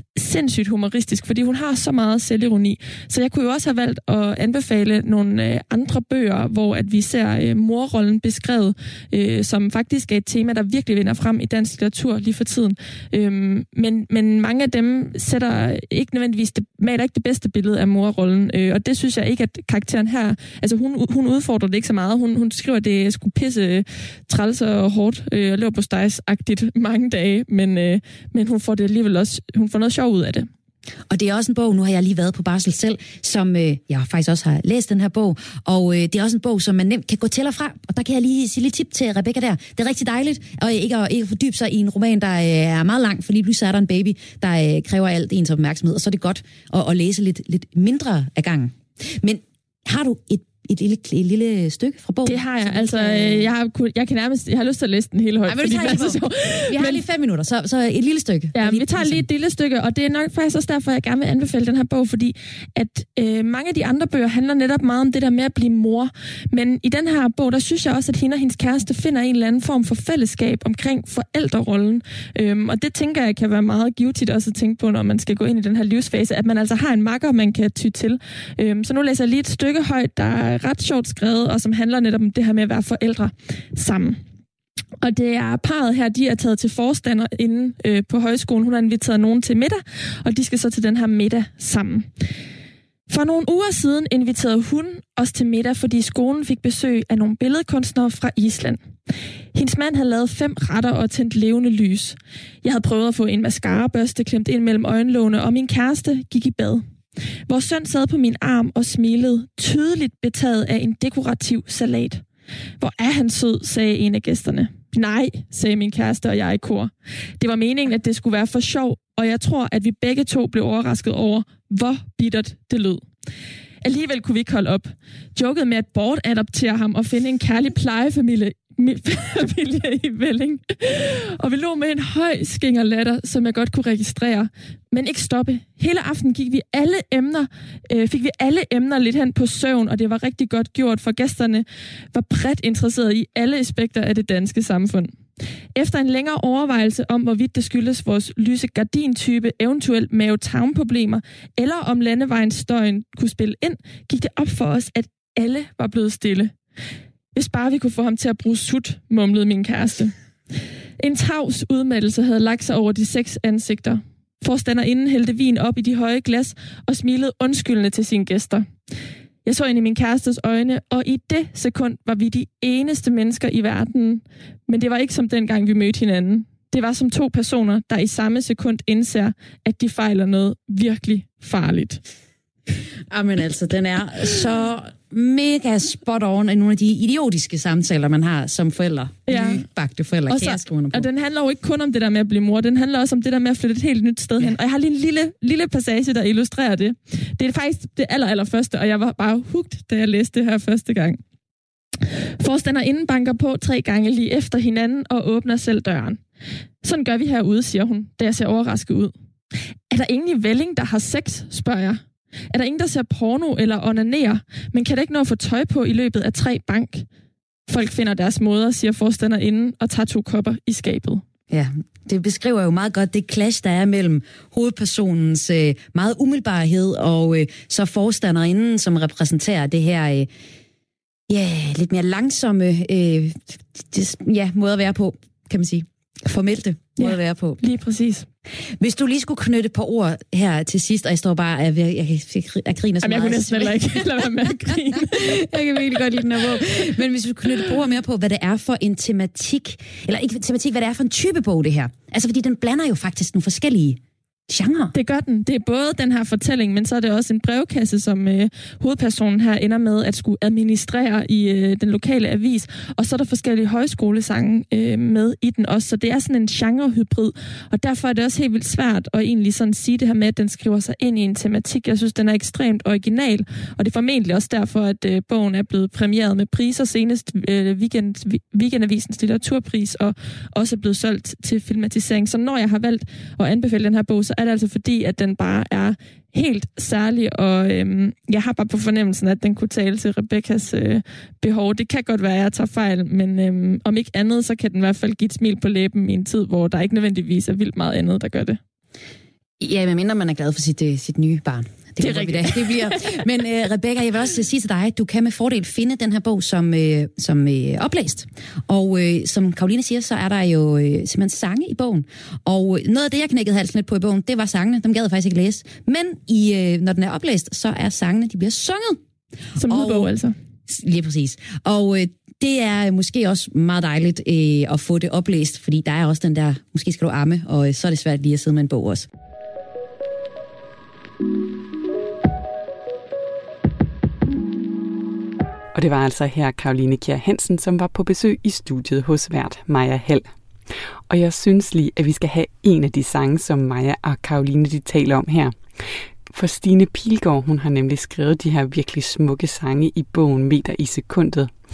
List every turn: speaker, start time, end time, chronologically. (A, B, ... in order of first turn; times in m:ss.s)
0:00.2-0:30.5 A
0:31.1-0:53.5 B
0:52.2-0:57.0 A
0:55.4-0:59.2 B
0:58.5-1:24.2 A
1:25.0-1:32.1 A
1:33.1-1:38.8 A
1:39.5-1:46.8 A
1:47.5-1:52.2 A
1:52.8-2:03.0 A
2:03.8-2:25.1 A
2:25.8-2:36.5 A
2:37.3-2:40.1 A
2:41.0-2:48.6 A
2:49.4-3:02.0 A
3:03.1-3:11.1 B
3:09.3-3:09.6 A
3:10.3-3:21.2 A
3:22.4-3:26.2 A
3:26.8-3:29.1 A
3:29.9-3:37.0 A
3:37.7-3:41.2 A
3:41.5-3:50.3 B
3:51.3-3:57.6 B
3:57.0-3:58.3 A
3:58.8-4:14.9 B
4:03.0-4:05.8 A
4:14.9-4:58.6 A
4:59.6-5:19.0 B
5:02.0-5:03.2 A
5:19.6-5:20.3 A
5:19.6-5:20.1 B
5:20.7-5:29.1 B
5:35.7-5:51.5 C